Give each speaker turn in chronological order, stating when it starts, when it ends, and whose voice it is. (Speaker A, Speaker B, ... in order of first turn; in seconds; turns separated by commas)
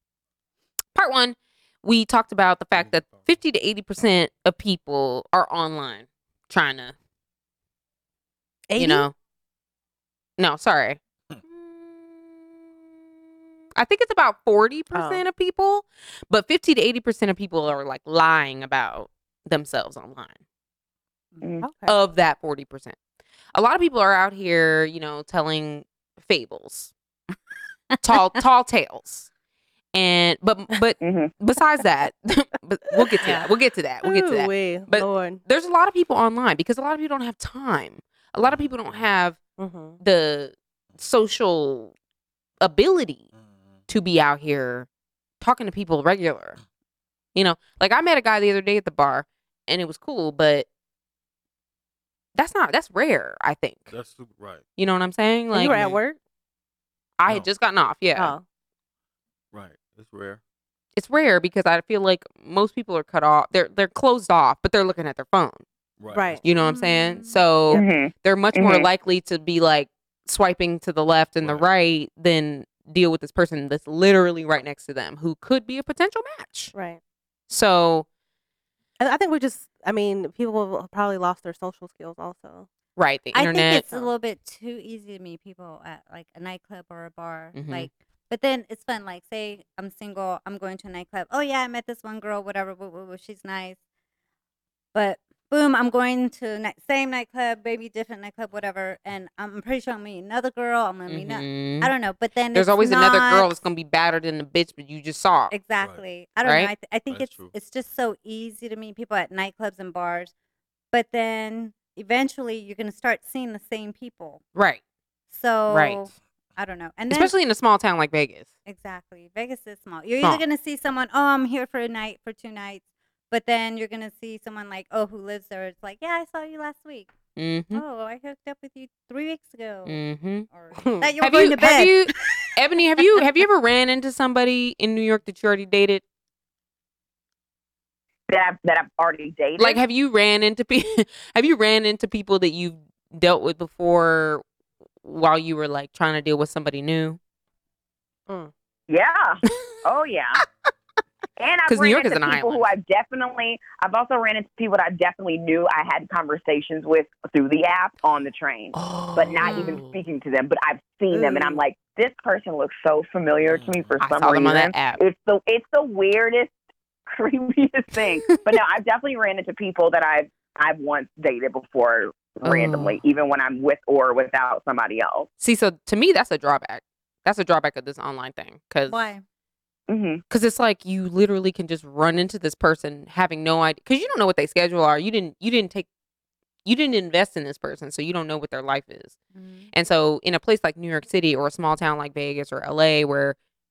Speaker A: 0.9-6.9, Speaker B: 8.7-9.1, Speaker A: 8.8-9.1, Speaker A: 10.4-12.5, Speaker A: 13.7-20.4, Speaker B: 14.9-15.2, Speaker B: 21.6-21.9, Speaker A: 21.9-22.9, Speaker A: 23.5-26.9, Speaker A: 28.0-29.3, Speaker A: 29.9-39.4, Speaker C: 31.0-31.3, Speaker B: 33.0-33.4, Speaker D: 33.2-33.5, Speaker B: 34.0-35.4, Speaker E: 38.5-39.0, Speaker B: 39.6-40.0, Speaker A: 40.0-41.9, Speaker A: 42.6-43.2, Speaker A: 43.9-44.9, Speaker A: 45.4-46.6, Speaker A: 47.3-50.7, Speaker A: 52.3-53.9, Speaker E: 53.9-54.6, Speaker A: 54.8-55.9, Speaker B: 55.5-56.2, Speaker A: 57.2-58.3, Speaker B: 58.1-58.4, Speaker E: 59.5-60.4, Speaker A: 61.0-65.6, Speaker E: 66.0-66.4, Speaker B: 66.1-66.4, Speaker A: 66.4-76.7, Speaker D: 66.6-67.4, Speaker C: 67.7-68.9, Speaker E: 71.4-71.7, Speaker B: 76.7-77.0, Speaker A: 77.5-78.0, Speaker B: 79.0-82.7, Speaker A: 83.0-84.1, Speaker D: 83.3-93.8, Speaker A: 87.5-87.9, Speaker D: 94.9-103.5, Speaker A: 101.1-101.9, Speaker A: 102.5-105.5, Speaker D: 105.5-110.3, Speaker A: 106.4-106.7, Speaker E: 107.1-107.5, Speaker D: 110.9-114.4, Speaker A: 114.5-114.8, Speaker D: 115.3-117.3, Speaker A: 115.7-116.0, Speaker A: 117.1-118.5, Speaker D: 118.7-127.1, Speaker A: 127.3-127.8, Speaker D: 127.7-130.0, Speaker A: 129.8-130.5, Speaker D: 130.5-132.4, Speaker B: 130.7-131.1, Speaker A: 131.2-136.0, Speaker C: 138.3-139.8, Speaker A: 139.6-144.4, Speaker A: 145.0-147.2, Speaker C: 148.9-150.4, Speaker C: 151.4-166.5, Speaker A: 151.7-152.7, Speaker A: 158.7-159.9, Speaker D: 159.4-159.8, Speaker B: 161.1-161.6, Speaker E: 163.5-164.0, Speaker A: 164.0-165.0, Speaker C: 167.1-175.3, Speaker A: 172.4-172.9, Speaker A: 175.4-179.0, Speaker D: 178.9-179.2, Speaker C: 179.9-180.2, Speaker A: 180.3-185.9, Speaker A: 186.6-189.2, Speaker D: 189.3-189.7, Speaker A: 189.7-193.3